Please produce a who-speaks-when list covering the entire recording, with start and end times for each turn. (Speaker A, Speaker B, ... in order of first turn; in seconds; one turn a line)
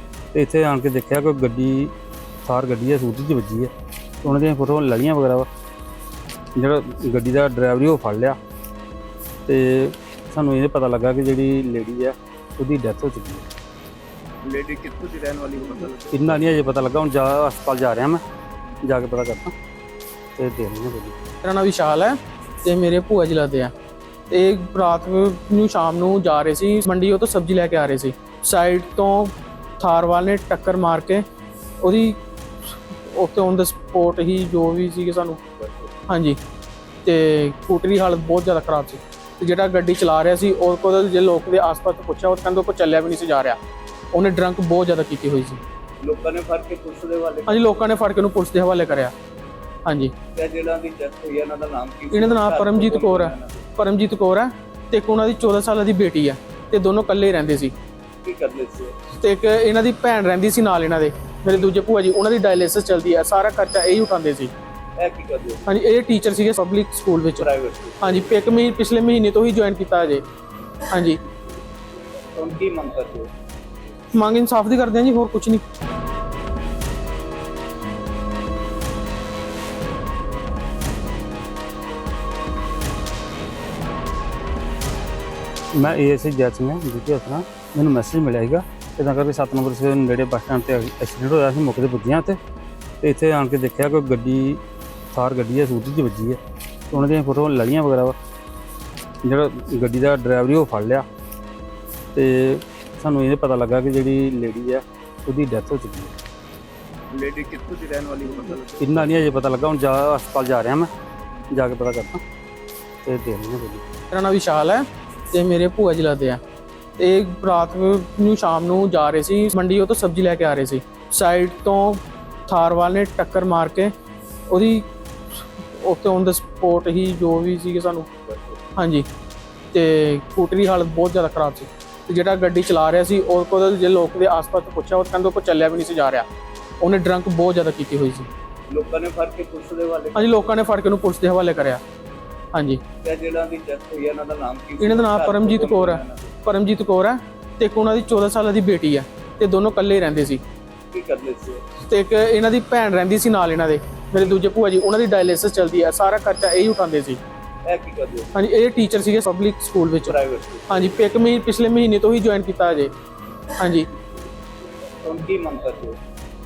Speaker A: 0.3-1.9
Speaker A: 2.5-3.7
Speaker A: 4.2-5.5
Speaker A: 6.6-8.4
Speaker A: 9.5-13.5
Speaker B: 14.4-16.8
Speaker A: 16.1-18.2
Speaker A: 18.8-19.5
Speaker A: 20.4-21.2
Speaker C: 21.4-23.7
Speaker C: 24.3-31.2
Speaker C: 31.8-35.4
Speaker B: 35.6-35.9
Speaker C: 36.1-36.4
Speaker C: 37.0-43.6
Speaker C: 44.1-45.6
Speaker B: 46.0-47.9
Speaker C: 47.5-49.1
Speaker C: 49.9-50.1
Speaker B: 50.4-53.6
Speaker C: 52.1-57.7
Speaker B: 58.2-59.0
Speaker C: 59.1-64.5
Speaker B: 65.0-65.7
Speaker C: 65.7-67.5
Speaker B: 67.4-68.5
Speaker C: 68.0-70.2
Speaker C: 70.9-71.2
Speaker B: 72.3-73.3
Speaker C: 74.1-75.6
Speaker A: 85.8-92.4
Speaker A: 93.0-94.6
Speaker A: 95.1-96.4
Speaker A: 96.9-98.2
Speaker A: 99.2-101.1
Speaker A: 102.2-106.1
Speaker B: 107.1-109.4
Speaker A: 108.8-110.9
Speaker A: 111.5-112.2
Speaker A: 113.1-113.8
Speaker C: 114.1-116.4
Speaker C: 117.0-123.9
Speaker C: 124.5-124.9
Speaker C: 125.4-128.2
Speaker B: 128.3-128.6
Speaker C: 128.8-129.1
Speaker C: 129.7-136.3
Speaker C: 136.8-138.3
Speaker B: 138.7-140.4
Speaker C: 140.2-141.8
Speaker C: 142.5-142.8
Speaker B: 143.0-146.3
Speaker C: 144.8-150.4
Speaker B: 150.9-151.6
Speaker C: 151.8-157.2
Speaker B: 157.7-158.3
Speaker C: 158.3-160.2
Speaker B: 160.1-160.9
Speaker C: 160.7-162.9
Speaker C: 163.6-163.9
Speaker B: 165.0-166.0